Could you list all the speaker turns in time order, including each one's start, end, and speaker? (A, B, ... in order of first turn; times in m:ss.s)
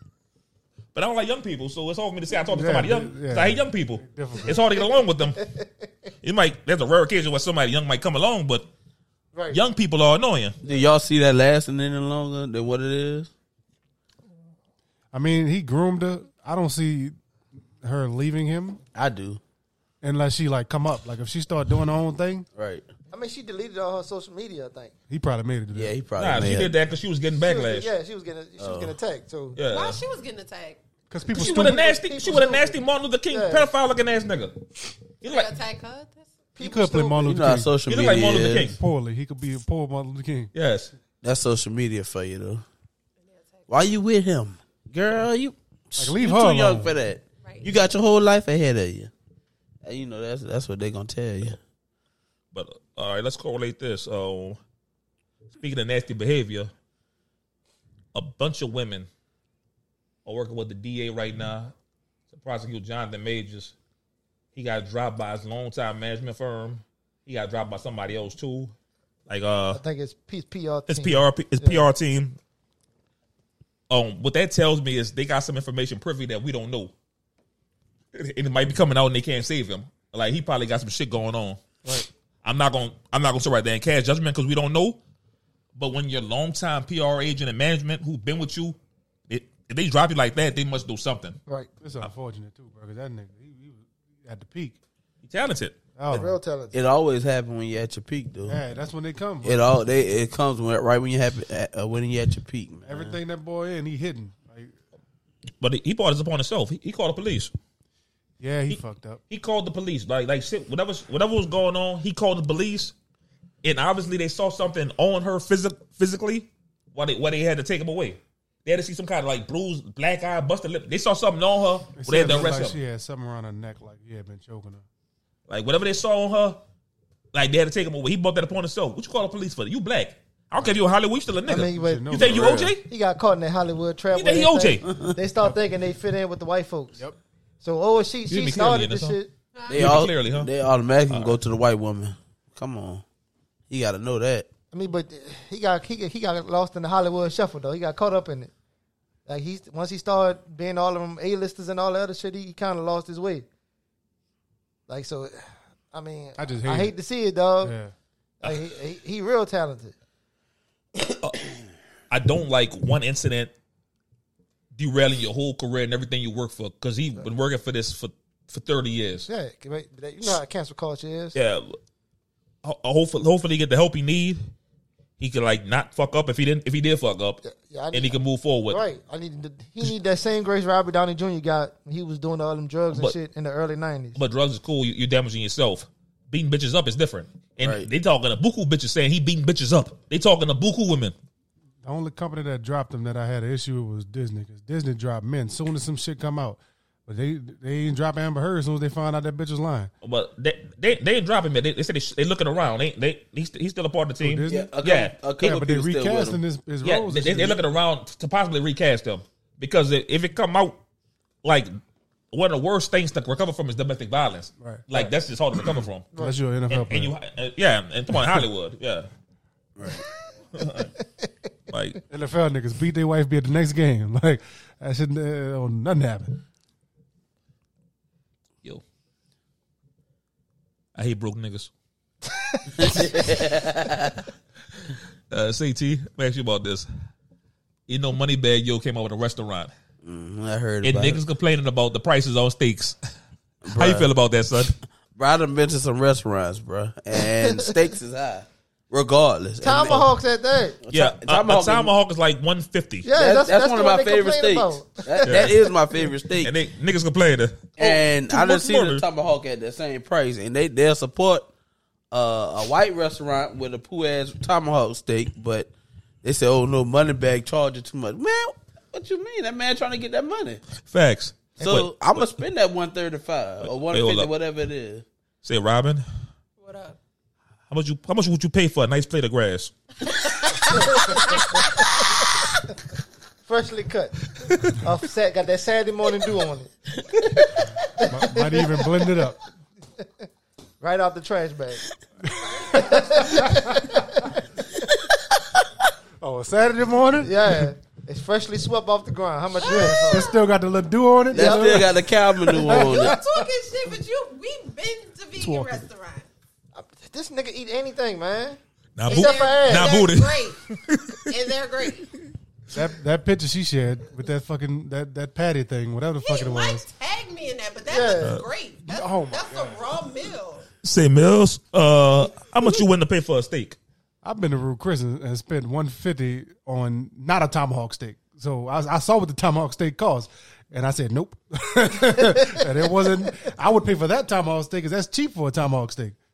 0:00.9-0:05.4 A
0:02.4-0:04.6 B
0:05.4-0:05.7 C
0:06.2-0:08.7 A
0:09.3-0:09.6 C
0:09.5-0:10.6 A
0:10.6-0:13.3 D
0:15.1-0:17.2 B
0:17.8-0:18.8 B
0:18.9-0:19.4 D
0:20.0-0:22.5 B
0:22.5-0:22.8 D
0:23.1-0:24.9 C
0:25.1-0:25.9 B
0:25.7-0:26.7 D
0:26.2-0:27.9 A
0:27.4-0:29.6 C
0:28.6-0:29.0 D
0:29.5-0:30.0 A
0:29.7-0:30.8 E
0:31.1-0:31.9 B
0:31.3-0:33.7 C
0:31.3-0:34.6 A
0:35.2-0:35.5 A
0:35.2-0:36.3 E
0:36.6-0:37.4 C
0:36.6-0:37.8 B
0:37.2-0:38.7 D
0:37.9-0:38.8 A
0:38.6-0:40.5 B
0:40.5-0:40.9 A
0:41.2-0:42.6 D
0:43.2-0:43.9 E
0:43.7-0:49.1 D
0:46.0-0:46.9 B
0:47.4-0:47.7 E
0:49.8-0:51.6 D
0:52.5-0:54.6 A
0:55.6-0:56.7 A
0:58.1-0:59.1 A
1:00.2-1:01.7 A
1:02.3-1:03.7 A
1:04.5-1:08.7 A
1:09.3-1:09.8 A
1:09.7-1:11.9 C
1:10.9-1:12.4 A
1:13.9-1:16.9 A
1:18.1-1:21.6 A
1:22.4-1:25.0 A
1:25.8-1:28.8 A
1:29.3-1:31.4 A
1:31.8-1:34.8 B
1:35.2-1:35.8 A
1:36.0-1:36.4 B
1:36.1-1:36.8 C
1:36.7-1:38.6 D
1:38.5-1:39.7 B
1:39.4-1:43.2 D
1:42.9-1:44.8 B
1:45.6-1:47.5 A
1:48.4-1:49.2 B
1:48.7-1:52.9 A
1:53.6-2:02.8 A
2:01.9-2:04.8 B
2:05.5-2:06.6 A
2:07.3-2:12.8 A
2:11.4-2:17.0 C
2:11.6-2:12.7 B
2:14.1-2:14.9 A
2:17.6-2:19.3 C
2:18.3-2:19.2 A
2:19.5-2:19.9 E
2:19.7-2:23.0 D
2:19.7-2:20.5 A
2:21.1-2:21.4 A
2:23.7-2:24.5 D
2:24.7-2:28.5 C
2:29.2-2:33.5 C
2:34.9-2:37.8 C
2:36.4-2:36.9 B
2:37.6-2:37.9 B
2:38.4-2:39.9 C
2:42.1-2:43.5 A
2:44.7-2:49.3 A
2:49.3-2:51.4 C
2:51.3-2:51.8 A
2:52.6-2:54.4 A
2:55.2-2:57.4 A
2:57.4-3:04.2 C
2:57.9-2:58.8 A
3:04.1-3:11.1 A
3:07.6-3:07.9 D
3:11.8-3:19.9 B
3:20.0-3:25.2 A
3:24.2-3:24.7 B
3:24.5-3:26.4 D
3:25.4-3:27.6 B
3:26.8-3:30.8 A
3:31.4-3:31.7 A
3:32.3-3:36.1 A
3:34.6-3:35.1 B
3:36.1-3:37.1 B
3:36.7-3:39.1 A
3:39.8-3:40.0 D
3:40.5-3:40.9 A
3:41.7-3:42.0 A
3:42.1-3:46.4 B
3:50.9-3:51.7 A
3:52.5-3:52.9 C
3:52.8-3:54.2 D
3:55.3-3:56.9 A
3:57.9-3:59.7 A
4:00.0-4:01.2 D
4:00.8-4:03.0 A
4:03.6-4:04.1 D
4:03.8-4:04.8 A
4:05.1-4:10.1 D
4:07.4-4:07.8 C
4:09.6-4:10.8 C
4:10.8-4:11.9 D
4:10.9-4:13.1 A
4:13.0-4:15.8 C
4:13.1-4:16.5 D
4:15.2-4:15.5 A
4:16.4-4:19.0 A
4:17.8-4:21.5 D
4:22.1-4:25.7 D
4:26.2-4:30.6 D
4:30.8-4:32.3 A
4:31.6-4:35.0 D
4:33.6-4:34.3 A
4:35.4-4:36.0 A
4:36.6-4:37.0 E
4:37.7-4:39.7 A
4:40.7-4:41.4 E
4:40.7-4:42.3 C
4:43.4-4:46.7 C
4:44.4-4:44.8 A
4:47.5-4:49.2 C
4:48.0-4:49.4 B
4:50.8-4:51.8 C
4:52.3-4:53.3 E
4:52.7-4:54.4 C
4:52.7-4:53.9 B
4:55.2-4:55.6 D
4:56.2-4:57.7 B
4:57.2-5:00.3 C
4:59.6-5:00.4 E
4:59.6-5:03.4 B
5:01.3-5:03.2 D
5:01.3-5:01.9 C
5:02.8-5:06.2 E
5:05.4-5:05.8 B
5:06.8-5:10.1 C
5:09.0-5:11.3 A
5:09.1-5:10.6 E
5:11.2-5:12.1 E
5:12.7-5:16.8 B
5:16.2-5:20.7 E
5:17.9-5:18.4 C
5:18.9-5:19.8 B
5:20.8-5:23.8 A
5:24.2-5:36.2 B